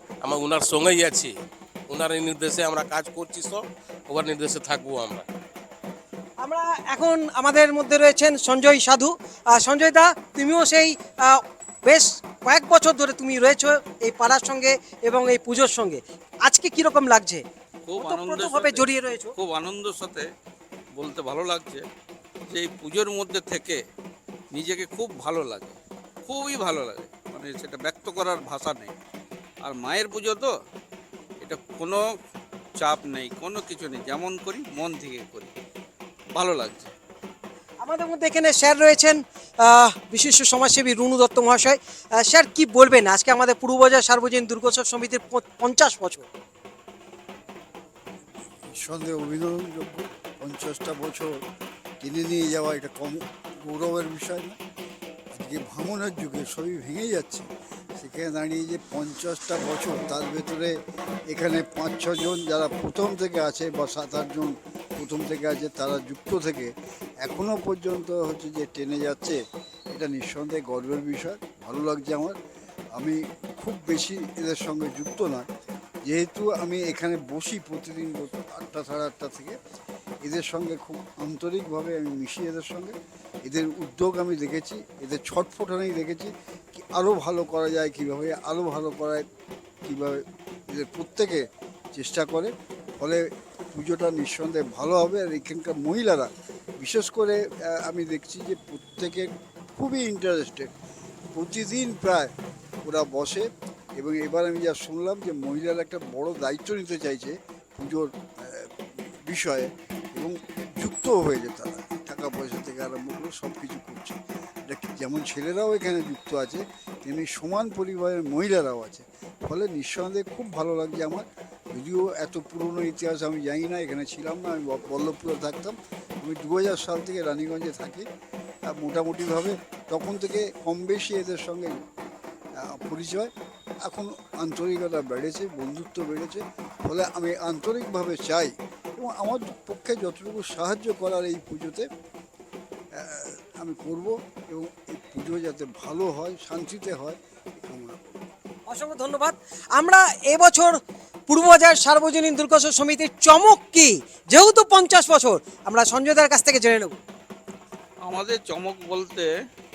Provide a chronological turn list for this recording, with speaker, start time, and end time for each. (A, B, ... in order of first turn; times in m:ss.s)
0:00.2-0:01.3 A
0:01.9-0:05.2 A
0:06.4-0:17.4 B
0:17.9-0:20.3 C
0:18.0-0:19.4 B
0:21.0-0:21.8 C
0:22.5-0:23.8 C
0:24.5-0:28.9 C
0:29.6-0:30.5 C
0:31.4-0:32.0 C
0:32.8-0:35.5 C
0:36.3-0:36.9 C
0:37.8-0:46.3 B
0:48.7-0:51.4 D
0:52.0-0:54.6 D
0:55.4-1:00.7 D
1:01.3-1:06.7 D
1:07.2-1:09.4 D
1:09.9-1:12.4 D
1:13.0-1:15.5 D
1:16.0-1:19.6 D
1:20.2-1:29.2 D
1:29.8-1:40.7 D
1:41.3-1:42.3 D
1:42.8-1:48.7 D
1:49.2-2:08.0 D
2:08.7-2:11.7 D
2:12.6-2:13.3 D
2:13.8-2:21.8 D
2:23.0-2:28.2 D
2:28.7-2:30.8 B
2:31.3-2:37.0 B
2:38.0-2:39.3 C